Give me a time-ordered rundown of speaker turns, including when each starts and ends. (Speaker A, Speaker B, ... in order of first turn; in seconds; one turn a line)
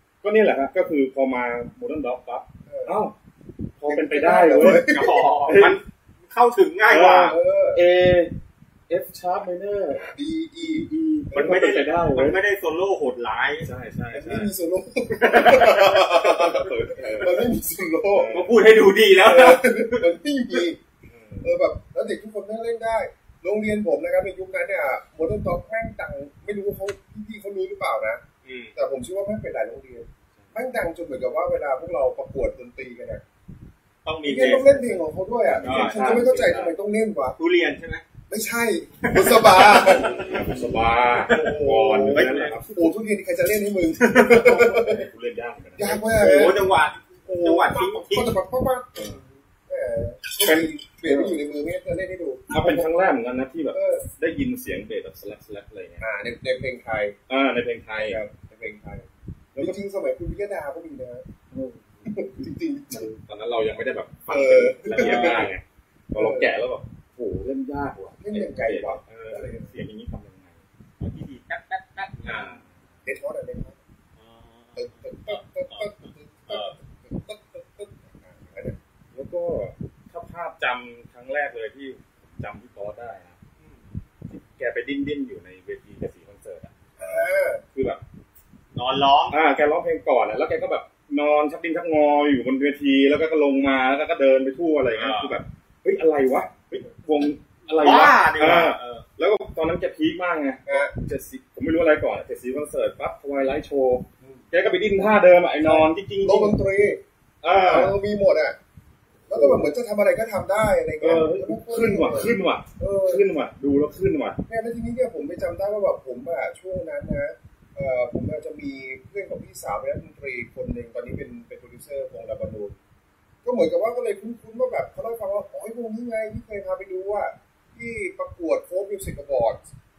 Speaker A: 0.2-3.1
Speaker B: 2.7-3.0
Speaker A: 3.8-5.8
Speaker B: 3.9-5.2
Speaker C: 4.6-7.3
Speaker A: 6.9-8.3
Speaker B: 7.0-7.8
Speaker A: 8.9-12.4
Speaker B: 10.0-11.7
Speaker C: 11.3-13.7
Speaker A: 13.6-14.5
Speaker B: 14.1-18.4
Speaker C: 15.2-16.0
Speaker A: 16.0-17.5
Speaker A: 18.1-18.6
Speaker C: 18.3-20.1
Speaker B: 19.2-20.8
Speaker A: 21.1-21.5
Speaker B: 21.4-28.2
Speaker C: 28.4-28.7
Speaker B: 28.8-33.2
Speaker C: 34.0-34.9
Speaker B: 34.2-37.4
Speaker A: 35.4-36.7
Speaker C: 35.6-36.1
Speaker C: 37.4-38.0
Speaker B: 38.3-40.4
Speaker C: 39.0-40.0
Speaker A: 39.9-42.8
Speaker B: 41.2-45.1
Speaker C: 42.1-42.6
Speaker C: 44.0-44.6
Speaker A: 44.3-46.5
Speaker B: 45.8-46.6
Speaker C: 46.1-48.4
Speaker B: 47.2-52.8
Speaker A: 50.4-51.4
Speaker A: 52.5-56.0
Speaker B: 53.7-54.1
Speaker B: 56.0-57.1
Speaker A: 57.3-58.2
Speaker B: 58.0-61.2
Speaker A: 61.5-62.1
Speaker B: 62.0-63.1
Speaker A: 62.9-70.6
Speaker B: 64.3-65.5
Speaker C: 64.9-65.5
Speaker B: 66.1-66.5
Speaker B: 68.2-69.7
Speaker C: 71.0-72.6
Speaker A: 72.3-72.7
Speaker B: 73.0-73.8
Speaker C: 74.2-76.8
Speaker B: 74.8-78.8
Speaker A: 79.1-83.4
Speaker A: 84.3-87.2
Speaker B: 87.0-87.6
Speaker A: 87.7-88.0
Speaker C: 88.7-89.4
Speaker A: 89.3-106.6
Speaker C: 94.9-95.4
Speaker C: 97.7-99.0
Speaker B: 100.7-100.9
Speaker B: 105.6-108.6
Speaker A: 107.4-107.9
Speaker B: 109.3-113.2
Speaker A: 109.3-109.7
Speaker A: 111.0-114.4
Speaker B: 114.5-122.7
Speaker B: 123.4-129.6